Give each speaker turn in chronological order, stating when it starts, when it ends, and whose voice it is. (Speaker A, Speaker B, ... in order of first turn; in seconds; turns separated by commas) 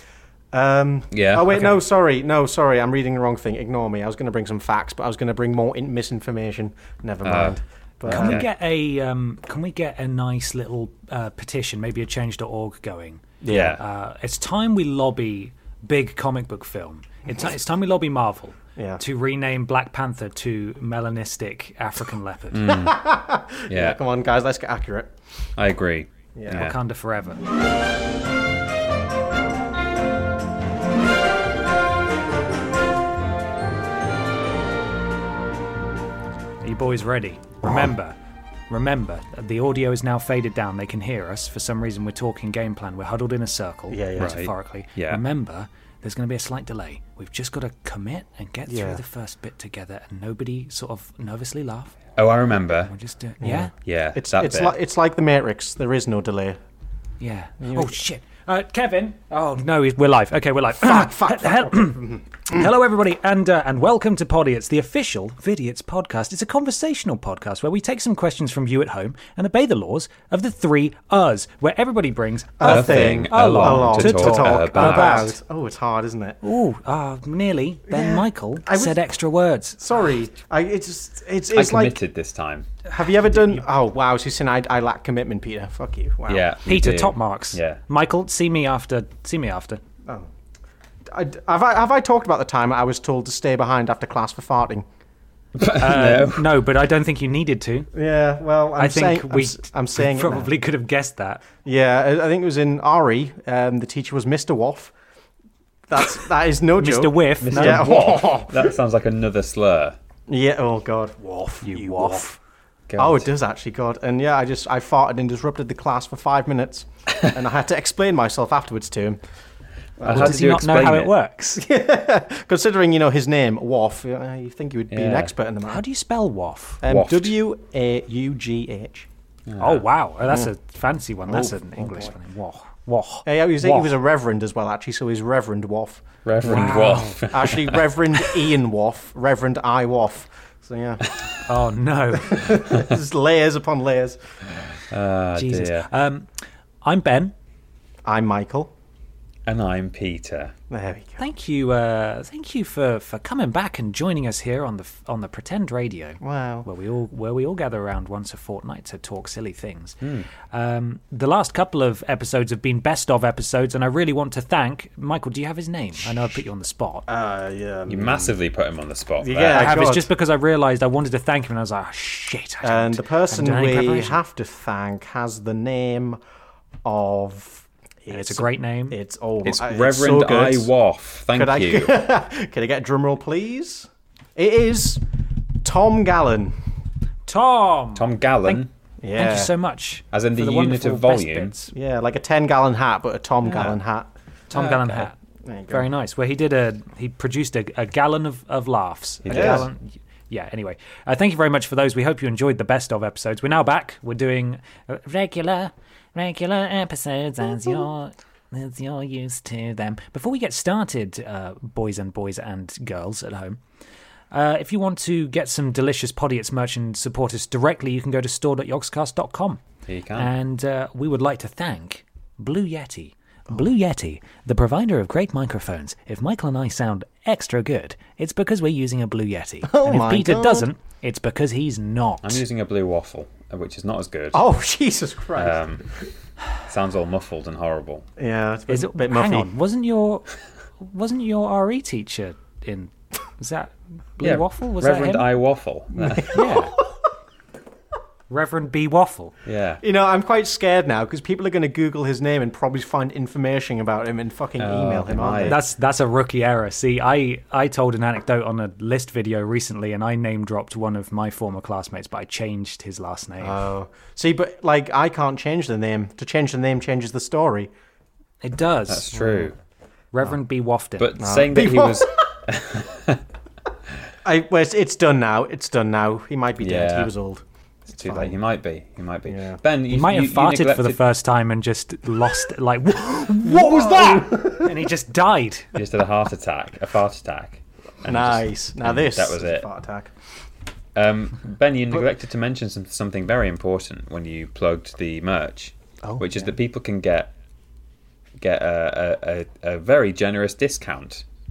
Speaker A: 0.5-8.4, Speaker B: 1.1-1.8, Speaker B: 7.2-8.5, Speaker C: 8.1-22.8, Speaker A: 13.4-13.8, Speaker B: 13.5-13.8, Speaker A: 18.8-19.0, Speaker B: 22.5-23.0, Speaker A: 22.7-25.1, Speaker B: 23.7-24.0, Speaker B: 25.6-26.8, Speaker A: 26.4-26.7, Speaker C: 26.5-27.4, Speaker C: 36.6-38.2, Speaker C: 38.7-52.0, Speaker A: 43.9-44.4, Speaker B: 44.2-45.2, Speaker A: 48.7-49.0, Speaker B: 52.2-52.9, Speaker C: 52.6-53.7, Speaker A: 53.4-56.6, Speaker B: 53.9-54.8, Speaker C: 57.2-75.4, Speaker A: 57.6-58.0, Speaker A: 60.8-62.7, Speaker A: 72.6-76.4, Speaker B: 72.6-75.3, Speaker C: 76.4-79.8, Speaker A: 77.9-79.0, Speaker A: 79.8-82.0, Speaker B: 81.5-82.7, Speaker A: 82.9-86.5, Speaker B: 86.3-87.8, Speaker C: 86.7-89.8, Speaker A: 91.1-94.8, Speaker B: 95.6-96.5, Speaker C: 95.8-97.9, Speaker A: 97.9-100.5, Speaker C: 98.8-101.4, Speaker A: 101.6-104.9, Speaker A: 105.9-108.7, Speaker C: 106.8-107.9, Speaker B: 107.4-110.0, Speaker A: 110.3-112.3, Speaker C: 111.6-112.4, Speaker B: 112.9-113.3, Speaker A: 113.0-119.2, Speaker A: 120.0-120.5, Speaker B: 120.0-121.2, Speaker C: 120.1-121.6, Speaker A: 121.5-125.8, Speaker B: 124.9-125.3, Speaker C: 125.7-126.8, Speaker A: 126.8-129.1, Speaker B: 126.8-127.3, Speaker B: 129.5-129.8, Speaker C: 129.6-133.9, Speaker A: 131.3-132.2, Speaker A: 133.3-141.1, Speaker B: 136.2-137.8, Speaker C: 136.4-137.2, Speaker C: 141.4-142.6, Speaker A: 142.1-144.2, Speaker B: 144.9-145.9, Speaker C: 145.4-146.3, Speaker C: 146.8-147.3, Speaker A: 148.1-148.7, Speaker B: 149.5-150.5, Speaker A: 150.7-151.2, Speaker C: 151.2-160.0, Speaker A: 156.2-156.7, Speaker B: 160.0-160.3, Speaker C: 160.5-167.1, Speaker A: 167.1-168.4, Speaker B: 167.9-169.7, Speaker A: 169.2-170.1, Speaker C: 169.5-174.2, Speaker A: 172.6-176.2, Speaker A: 176.8-180.7, Speaker C: 178.1-179.0, Speaker B: 179.4-181.9, Speaker A: 181.3-185.0, Speaker A: 185.6-186.6, Speaker C: 187.3-191.7, Speaker B: 187.9-188.7, Speaker A: 189.0-189.5, Speaker B: 190.1-191.5, Speaker A: 191.7-194.1, Speaker C: 194.5-195.2, Speaker B: 194.5-195.1, Speaker A: 195.4-195.9, Speaker C: 195.7-213.6, Speaker B: 199.2-199.7, Speaker A: 199.3-199.7, Speaker C: 214.3-219.6, Speaker B: 219.9-220.3, Speaker C: 220.2-232.4, Speaker A: 229.6-230.7, Speaker B: 232.2-234.4, Speaker A: 234.3-236.1, Speaker B: 235.4-235.8, Speaker B: 236.6-238.1, Speaker A: 238.2-239.5, Speaker C: 238.7-240.3, Speaker C: 240.8-245.3, Speaker B: 244.2-246.5, Speaker A: 246.0-246.8, Speaker C: 246.3-246.8, Speaker C: 248.3-249.3, Speaker B: 249.5-249.8, Speaker A: 249.8-255.6, Speaker B: 254.6-255.6, Speaker C: 255.5-263.6, Speaker A: 263.4-267.7, Speaker C: 268.4-269.1, Speaker B: 268.9-269.6, Speaker A: 269.1-269.5, Speaker C: 270.1-271.1, Speaker B: 271.0-273.2, Speaker A: 271.2-272.1, Speaker A: 274.2-277.4, Speaker B: 276.6-277.1, Speaker B: 277.9-281.0, Speaker A: 277.9-278.3, Speaker A: 279.3-279.6, Speaker C: 279.9-285.8, Speaker A: 283.3-284.8, Speaker B: 285.8-289.7, Speaker A: 288.1-290.1, Speaker B: 290.9-297.3, Speaker A: 296.0-296.5, Speaker B: 298.4-301.2